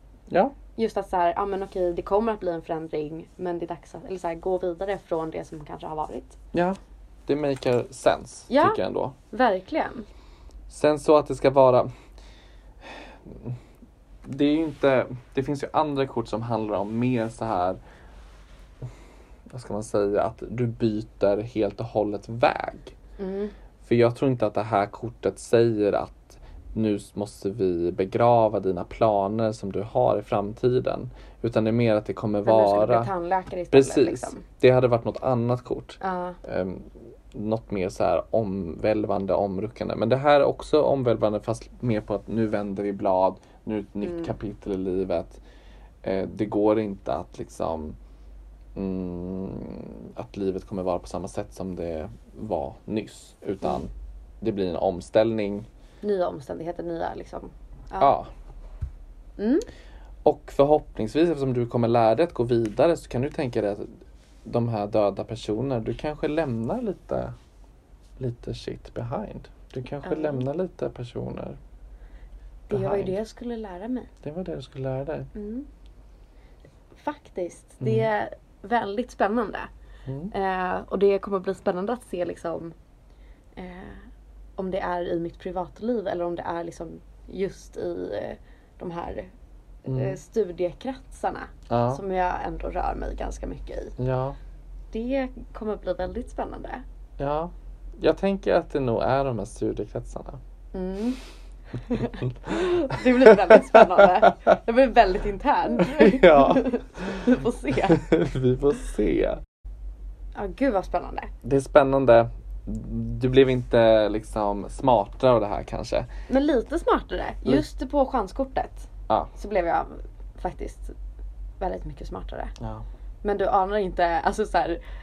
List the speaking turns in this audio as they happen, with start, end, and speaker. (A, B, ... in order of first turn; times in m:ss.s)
0:00.3-0:00.6 A
0:00.8-0:06.4 B
0:06.5-0:09.2 A
0:08.5-0:10.1 B
0:10.7-0:11.9 A
0:12.8-0:13.6 A
0:14.2-0:17.8 A
0:19.5-0:23.0 A
0:23.2-0:23.5 B
0:23.8-0:33.1 A
0:32.5-0:34.4 B
0:33.7-0:45.4 A
0:36.0-0:36.4 B
0:44.0-0:44.3 B
0:46.0-0:48.0 A
0:48.8-0:55.7 A
0:56.0-0:58.1 B
0:58.0-0:58.3 A
0:59.4-0:59.7 B
1:00.2-1:03.9 A
1:04.4-1:07.3 A
1:08.2-1:11.6 A
1:10.0-1:10.5 B
1:12.7-1:14.1 B
1:12.7-1:13.2 A
1:14.2-1:15.3 A
1:15.4-1:15.7 B
1:17.0-1:19.7 B
1:17.8-1:18.1 A
1:20.1-1:20.3 A
1:20.3-1:22.7 B
1:23.6-1:24.1 B
1:24.6-1:29.3 B
1:29.8-1:34.0 B
1:29.9-1:30.2 A
1:31.7-1:32.0 A
1:34.0-1:34.4 A
1:34.9-1:36.8 B
1:37.2-1:40.4 A
1:40.7-1:41.2 B
1:41.8-1:48.0 B
1:42.5-1:44.3 A
1:45.8-1:49.4 A
1:50.4-1:51.3 B
1:51.4-1:56.1 A
1:56.3-2:00.9 B
2:01.6-2:02.6 B
2:03.2-2:04.8 B